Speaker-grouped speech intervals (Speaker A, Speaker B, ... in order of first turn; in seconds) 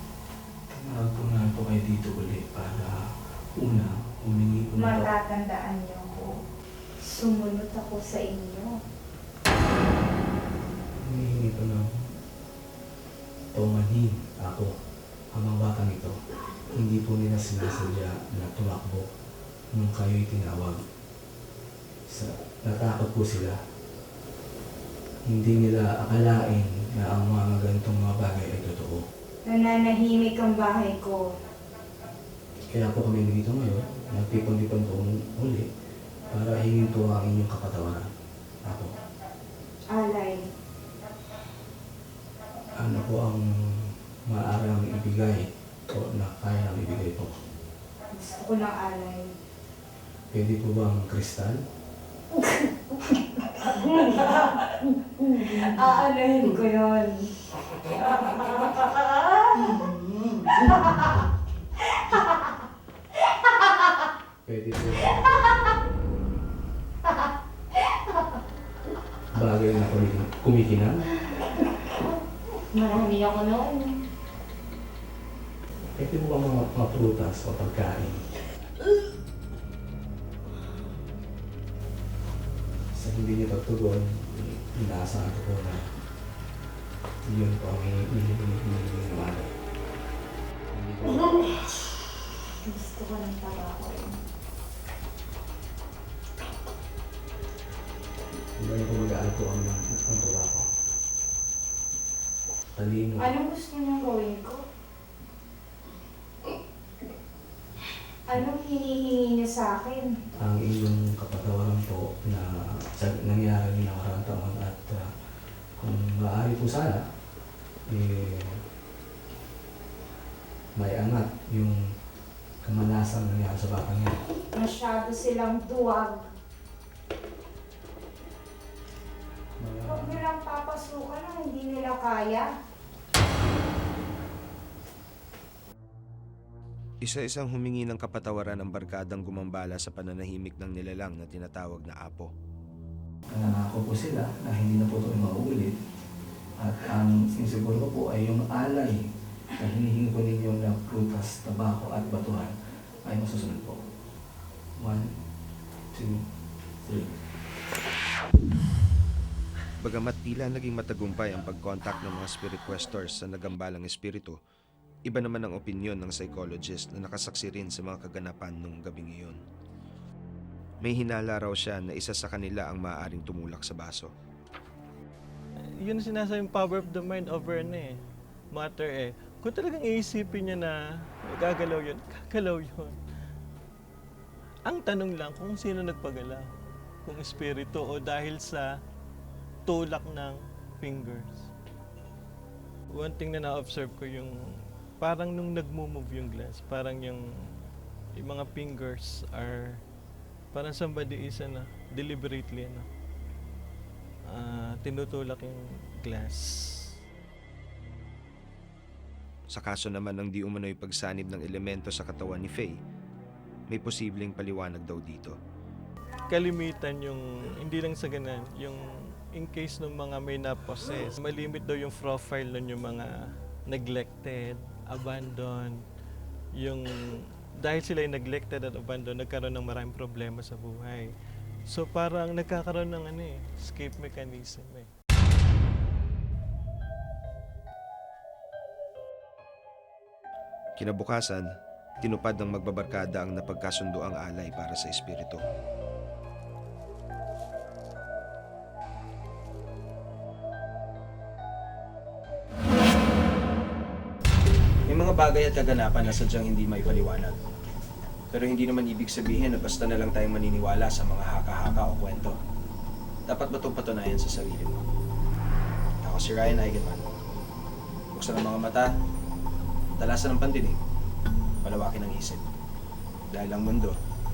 Speaker A: 0.7-3.0, 3.6-5.1, 11.0-11.9, 13.5-14.7, 15.3-16.2, 16.7-19.1, 19.7-20.8, 22.1-23.6, 25.3-29.1, 32.7-35.7, 36.3-38.1, 38.6-38.9, 42.8-47.3, 50.3-51.6, 64.4-65.3, 69.3-71.0, 76.0-78.2, 82.9-85.8, 87.2-89.5, 90.7-91.4, 98.6-100.7, 102.7-103.3, 110.4-115.0, 115.8-117.0, 117.9-118.6, 120.8-121.8, 122.6-124.2, 129.6-130.2, 143.3-145.8, 146.6-153.8, 154.8-155.2, 155.9-156.2, 156.8-157.2
Speaker B: 4.8-6.3, 7.0-8.7, 29.4-31.2, 39.9-40.4, 48.1-49.3, 53.2-57.5, 58.1-59.8, 60.5-61.2, 61.9-62.5, 63.3-63.9, 67.1-68.3, 72.7-74.0, 92.6-94.2, 103.2-104.6, 108.3-110.1, 124.5-126.2, 129.9-132.5
Speaker C: 137.0-142.3, 159.8-164.4, 165.1-169.4, 170.8-174.1, 209.5-212.8, 213.7-215.3, 240.8-241.5, 242.0-245.4
Speaker D: 175.8-178.0, 178.5-183.0, 184.7-186.5, 187.1-188.8, 189.7-191.5, 192.9-197.2, 198.2-199.8, 200.5-202.9, 204.3-206.9, 216.3-225.8, 226.6-231.1, 231.7-234.9
Speaker E: 254.9-257.4, 258.3-262.4, 263.3-264.8, 266.0-267.0, 268.1-268.9, 270.0-270.8, 271.6-272.4, 273.3-273.9